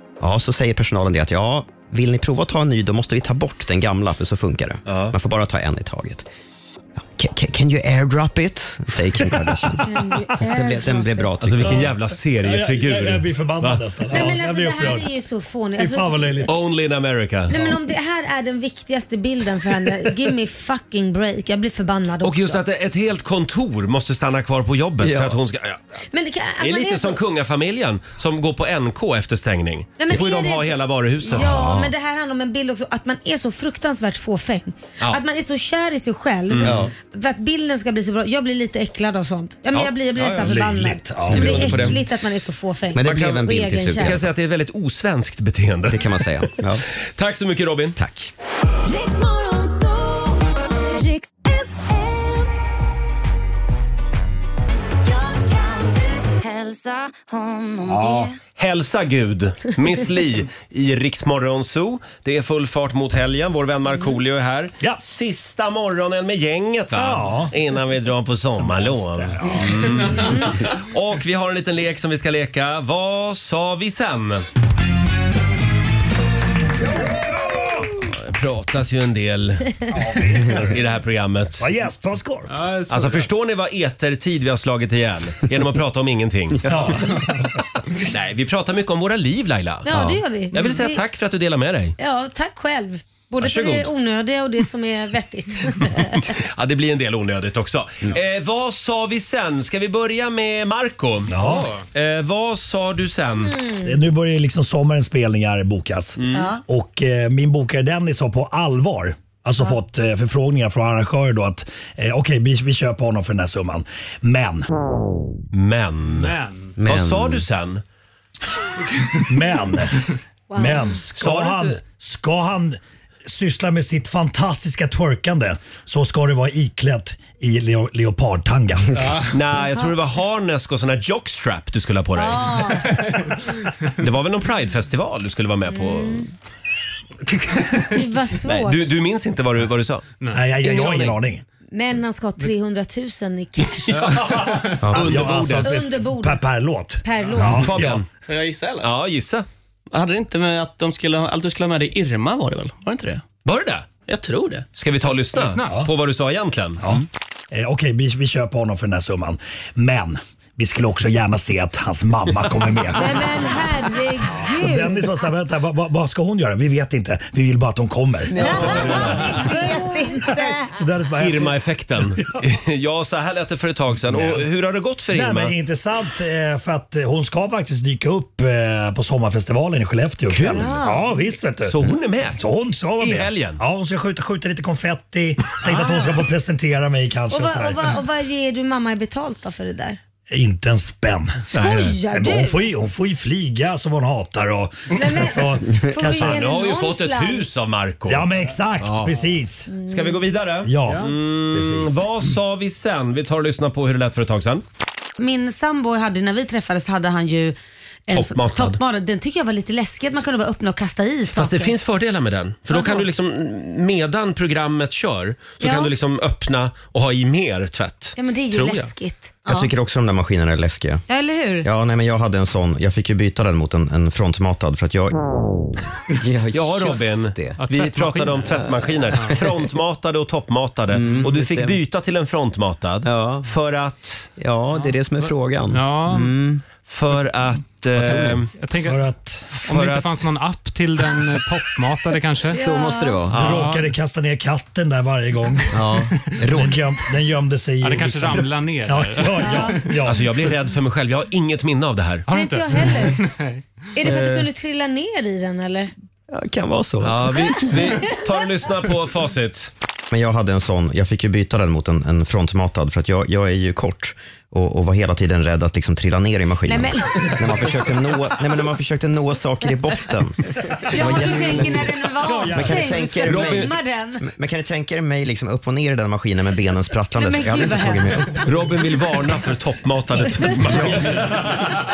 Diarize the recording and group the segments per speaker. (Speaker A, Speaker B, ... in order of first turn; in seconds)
Speaker A: 0.2-6.3, 7.1-11.9, 25.0-25.4, 31.3-31.9, 36.6-36.9, 41.2-42.0, 42.9-44.2, 45.9-46.8, 48.0-48.3, 116.8-117.4, 144.8-145.3, 219.4-221.0, 221.6-225.1, 226.1-227.6, 230.9-231.8, 233.0-233.5, 234.4-236.6, 238.0-238.4, 242.5-243.4, 245.7-246.8, 256.3-257.8, 260.1-278.5, 280.6-281.4
Speaker B: 4.9-5.1, 11.4-13.8, 16.4-17.8, 22.2-25.8, 26.6-31.6, 36.5-36.8, 41.3-41.9, 43.0-43.4, 44.0-46.5, 47.2-48.0, 58.6-74.5, 78.0-79.8, 80.4-81.7, 82.9-86.7, 87.9-92.0, 93.4-93.9, 96.1-103.6, 106.2-106.5, 115.5-117.8, 121.2-121.8, 129.3-132.7, 133.9-136.3, 138.4-141.2, 143.9-145.8, 147.4-148.1, 148.8-149.4, 153.4-153.9, 154.8-156.8, 168.5-169.3, 171.2-175.6, 180.3-180.7, 181.6-182.4, 183.0-183.6, 191.5-192.0, 196.1-198.3, 198.8-199.1, 199.9-204.6, 208.1-208.8, 211.3-218.9, 226.5-234.3, 236.8-238.5, 239.5-240.2, 243.3-243.7, 250.1-252.2, 254.0-254.5, 257.0-259.7, 273.2-273.7, 278.4-281.5
Speaker C: 9.8-11.3, 14.1-16.5, 17.5-22.6, 26.1-27.2, 30.0-44.2, 70.2-70.5, 89.8-91.0, 92.0-96.3, 103.4-104.0, 106.3-106.6, 120.5-121.0, 132.2-132.9, 135.7-136.2, 137.8-138.8, 141.7-144.2, 145.6-146.4, 147.0-147.6, 162.9-165.2, 168.4-170.7, 180.5-181.2, 185.7-186.0, 187.3-190.0, 191.4-192.6, 194.9-197.5, 199.7-200.2, 205.2-207.6, 208.1-211.7, 212.7-213.1, 215.6-215.9, 218.2-219.7, 221.1-221.7, 242.5-243.2, 249.4-249.8, 252.3-253.2, 253.9-255.9, 257.5-258.1, 266.7-267.2, 270.9-274.2, 277.2-278.4
Speaker D: 11.7-15.1, 15.8-16.5, 40.2-42.0, 57.8-58.3, 66.9-67.5, 68.5-70.1, 77.1-77.8, 79.9-80.8, 81.6-82.5, 86.6-87.4, 101.3-101.8, 103.8-114.7, 119.3-129.0, 140.3-141.4, 144.9-148.0, 155.7-155.9, 156.8-163.3, 164.2-171.6, 172.1-172.4, 174.1-174.4, 175.1-181.8, 182.3-188.0, 190.3-191.5, 192.0-196.4, 198.1-199.7, 200.6-202.0, 238.8-239.5, 243.3-245.8, 246.5-250.3, 272.2-273.3
Speaker E: 48.9-52.5, 55.0-58.4
Speaker F: 82.5-83.3, 116.1-116.7, 144.0-144.5, 155.3-155.8, 227.6-228.5, 235.7-236.3, 238.6-239.0, 239.6-242.6, 243.4-243.9, 247.8-250.0, 252.3-253.6
Speaker G: 148.2-148.9, 149.9-153.2, 154.1-154.7